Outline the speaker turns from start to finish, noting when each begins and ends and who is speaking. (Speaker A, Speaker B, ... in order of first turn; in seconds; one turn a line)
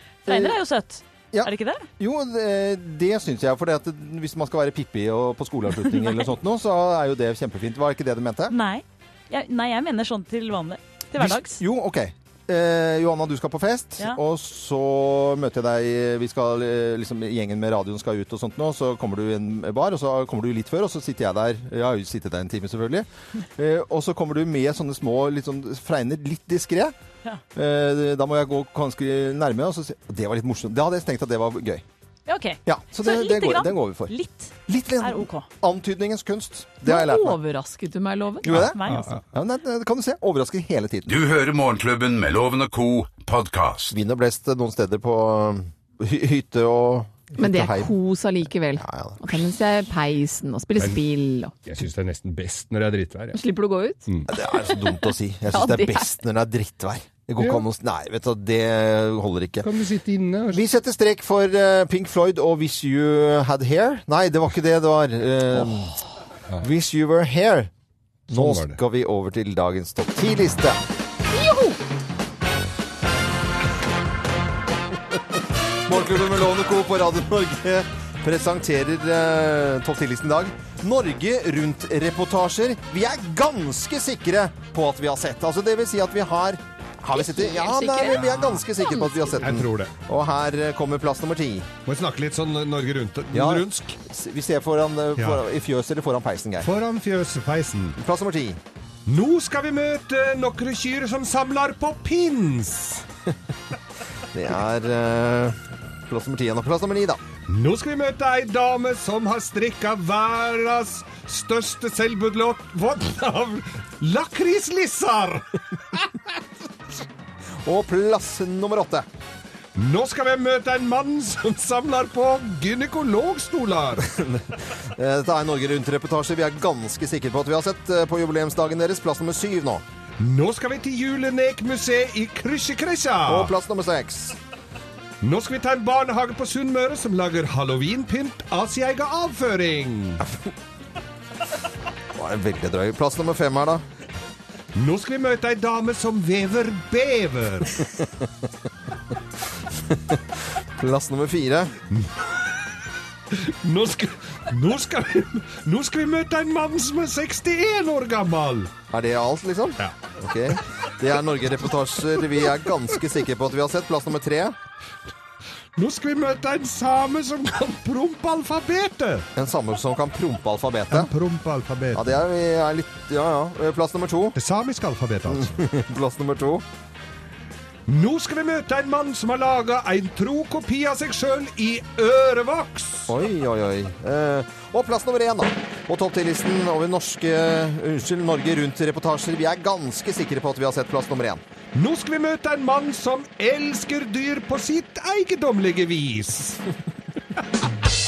Speaker A: 0.2-1.9
Speaker B: 0.3-0.6
Speaker B: 1.3-8.6
Speaker A: 5.9-6.2
Speaker A: 8.5-11.6
Speaker B: 11.1-26.9
Speaker B: 27.5-31.8
Speaker A: 32.2-35.5
Speaker B: 32.6-34.1
Speaker B: 34.6-37.4
Speaker C: 36.8-38.5
Speaker B: 38.4-41.2
Speaker A: 38.5-39.2
Speaker D: 41.1-44.0
Speaker B: 43.9-47.9
Speaker C: 47.4-51.5
Speaker B: 48.8-49.4
Speaker E: 51.6-53.4
Speaker C: 53.3-54.1
Speaker B: 54.3-59.7
Speaker C: 55.5-56.2
Speaker E: 59.6-60.6
Speaker B: 60.5-66.0
Speaker B: 66.6-67.7
Speaker E: 68.3-68.8
Speaker B: 68.3-70.8
Speaker C: 71.3-71.8
Speaker B: 75.8-91.7
Speaker C: 87.1-89.4
Speaker E: 89.4-89.9
Speaker E: 91.8-94.0
Speaker B: 93.3-96.7
Speaker E: 95.2-95.4
Speaker E: 96.6-98.0
Speaker B: 98.0-98.6
Speaker E: 99.1-103.0
Speaker B: 104.3-107.2
Speaker E: 107.5-116.1
Speaker B: 117.6-119.0
Speaker E: 119.8-124.1
Speaker B: 124.1-129.8
Speaker E: 130.2-133.5
Speaker B: 133.2-134.3
Speaker E: 135.2-140.2
Speaker B: 142.1-143.8
Speaker E: 144.7-147.8
Speaker B: 149.7-151.8
Speaker E: 153.3-158.7
Speaker B: 158.9-164.6
Speaker E: 165.8-169.2
Speaker B: 169.3-171.1
Speaker E: 170.9-172.0
Speaker B: 171.9-174.4
Speaker E: 174.3-175.5
Speaker B: 175.3-176.6
Speaker E: 177.9-183.1
Speaker B: 183.1-191.4
Speaker E: 191.7-196.6